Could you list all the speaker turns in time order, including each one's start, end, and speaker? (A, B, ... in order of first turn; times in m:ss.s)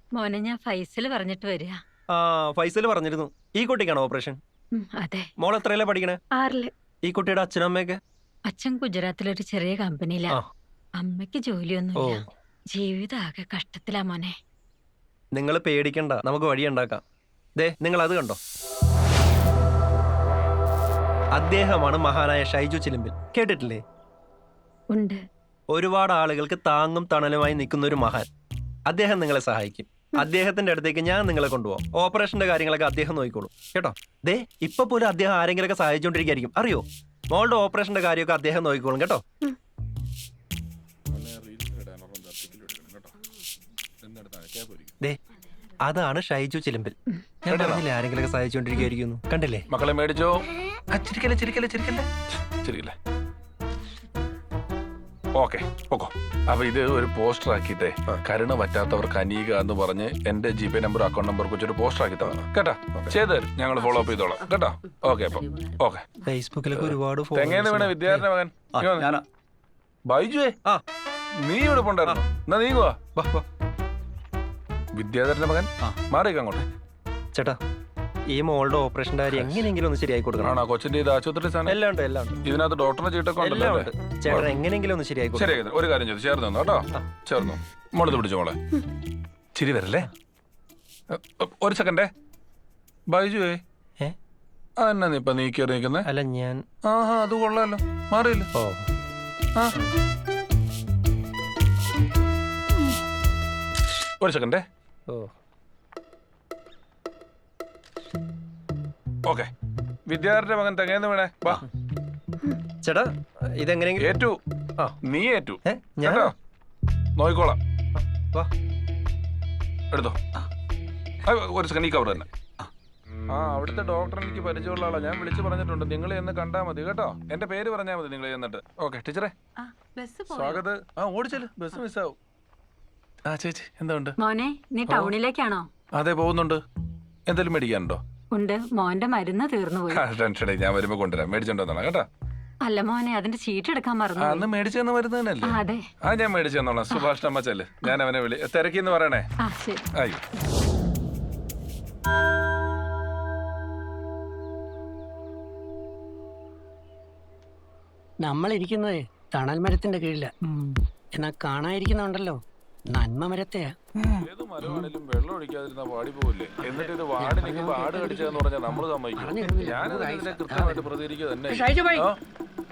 0:00.1-0:01.8 A
0:02.1-0:04.4 B
0:04.7-0:05.3 A
0:05.4-0:06.2 B
0:06.4-0:06.7 A
0:07.0-0:08.0 B
0:08.5-0:10.4 A
0:11.0-0:14.3 A
0:12.0-0:12.2 B
0:15.3-0:17.0 B
0:17.6-0:18.4 B
0:21.4-0:23.8 B
0:24.9-0:25.2 A
0:25.7-0:28.3 B
0:28.9-0:39.2 B
0:41.1-0:43.1 C
0:44.0-0:45.0 C
0:45.8-0:49.6 B
0:47.5-0:47.8 C
0:49.7-0:50.4 C
0:50.9-0:52.1 C
0:52.6-0:52.9 C
0:55.3-1:06.1 C
1:06.2-1:08.9 B
1:06.7-1:09.1 C
1:10.1-1:10.6 C
1:11.4-1:13.0 C
1:13.2-1:13.4 B
1:14.9-1:16.6 C
1:18.3-1:20.5 B
1:19.3-1:19.7 C
1:20.4-1:21.8 C
1:21.6-1:22.4 B
1:22.4-1:24.6 C
1:23.4-1:25.6 B
1:25.3-1:28.6 C
1:29.5-1:30.1 C
1:31.1-1:32.1 C
1:33.1-1:33.6 C
1:34.8-1:36.1 C
1:36.0-1:36.6 B
1:36.8-1:38.5 C
1:38.5-1:38.9 B
1:44.2-1:44.6 C
1:49.2-1:49.5 C
1:50.1-1:51.6 C
1:52.8-1:54.1 B
1:54.0-1:54.4 C
1:55.0-1:56.3 C
1:55.6-1:56.3 B
1:57.2-1:57.6 C
1:59.9-2:00.2 C
2:01.3-2:02.3 C
2:03.3-2:09.3 C
2:09.6-2:10.6 A
2:10.3-2:12.2 C
2:13.3-2:14.2 C
2:14.2-2:15.7 A
2:14.9-2:15.1 C
2:16.0-2:16.6 C
2:17.3-2:18.0 C
2:18.3-2:20.0 A
2:19.9-2:22.0 C
2:22.6-2:24.5 A
2:24.2-2:29.3 C
2:25.4-2:25.8 A
2:29.4-2:29.9 A
2:38.2-2:40.3 D
2:41.1-2:42.4 D
2:42.9-2:43.7 D
2:44.2-2:52.2 C
2:46.6-2:48.4 D
2:49.2-2:50.9 D
2:51.5-2:51.9 D